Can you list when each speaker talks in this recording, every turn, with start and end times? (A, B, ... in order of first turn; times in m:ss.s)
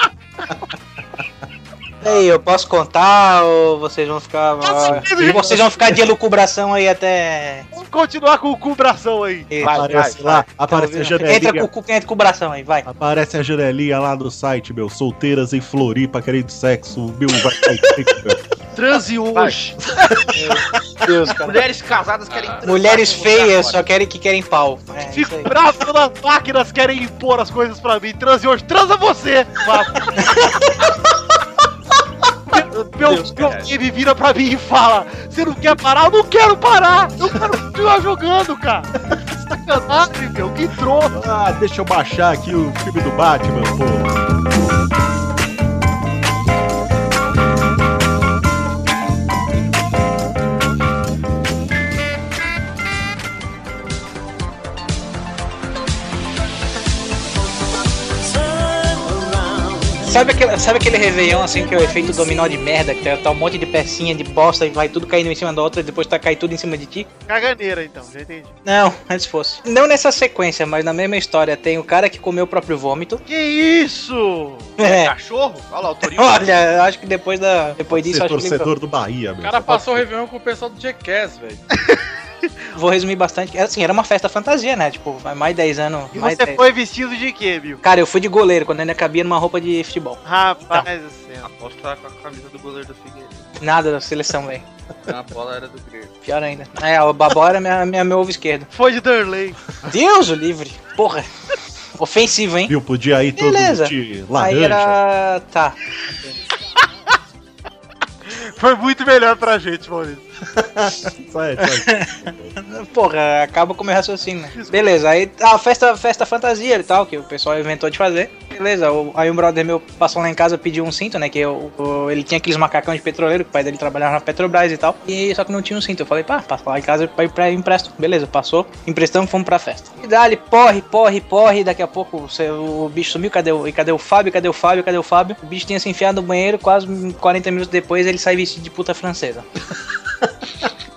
0:02.0-0:07.7 A
0:04.6-0:05.8 B
0:05.2-0:05.8 C
0:07.7-0:09.6 B
0:09.5-0:10.0 A
0:09.6-0:11.7 C
0:09.6-0:10.2 D
0:10.7-0:12.9 A
0:12.9-0:18.4 C
0:18.7-0:19.8 D
0:20.3-0:21.7 A
0:20.4-0:20.6 C
0:21.4-0:23.8 D
0:22.3-0:22.6 E
0:22.7-0:25.5 A
0:25.1-0:30.3 B
0:30.2-0:30.6 A
0:32.5-0:38.9 B
0:33.3-0:33.7 D
0:39.5-0:41.2 B
0:41.1-0:44.1 C
0:59.9-1:07.1 A
1:07.3-1:08.5 B
1:08.6-1:13.2 A
1:13.3-1:14.7 B
1:14.8-1:15.1 A
1:14.8-1:16.6 D
1:16.1-1:18.7 A
1:17.9-1:20.1 C
1:19.4-1:21.6 E
1:22.8-1:26.6 A
1:26.1-1:27.8 B
1:27.8-1:30.2 A
1:30.2-1:31.5 B
1:31.4-1:33.5 D
1:33.6-1:34.6 A
1:35.1-1:36.2 D
1:36.3-1:38.7 A
1:38.7-1:39.6 B
1:39.8-1:41.3 A
1:42.0-1:42.8 A
1:42.7-1:45.0 C
1:43.4-1:46.3 A
1:48.3-1:50.2 B
1:50.5-1:52.6 C
1:51.6-2:19.4 A
1:54.5-1:55.0 B